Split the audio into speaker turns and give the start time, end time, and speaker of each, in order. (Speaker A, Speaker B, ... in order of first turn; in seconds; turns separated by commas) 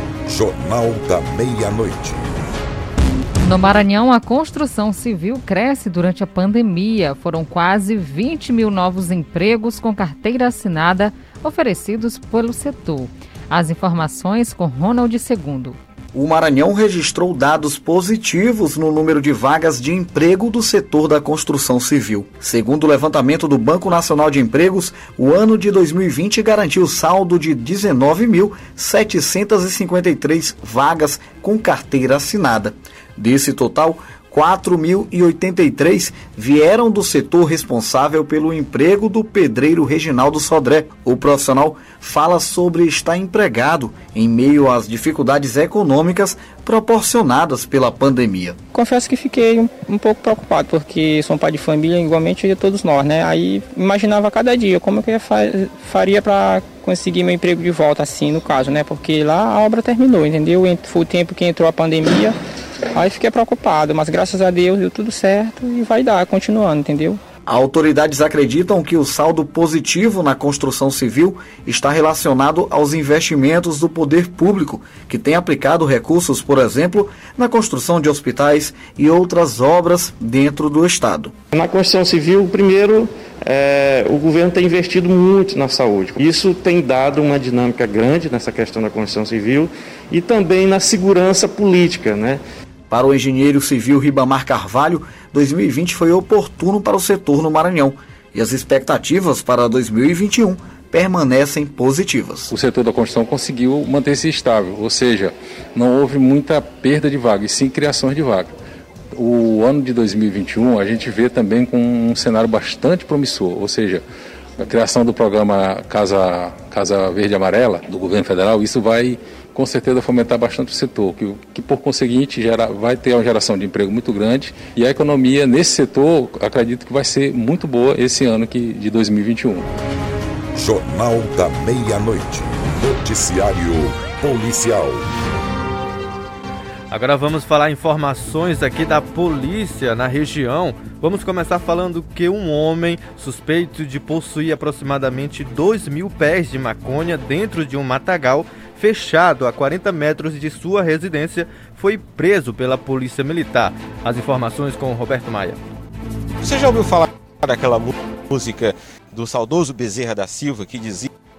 Speaker A: 0.3-2.3, Speaker B: 3.4-15.8, Speaker C: 16.1-48.6, Speaker D: 48.7-62.4, Speaker D: 62.9-67.2, Speaker C: 67.5-81.3, Speaker E: 81.6-89.7, Speaker E: 90.2-92.4, Speaker C: 92.9-102.5, Speaker F: 102.5-108.5, Speaker F: 109.1-114.0, Speaker F: 114.6-129.7, Speaker A: 130.6-135.1, Speaker G: 136.9-155.6, Speaker H: 156.4-161.1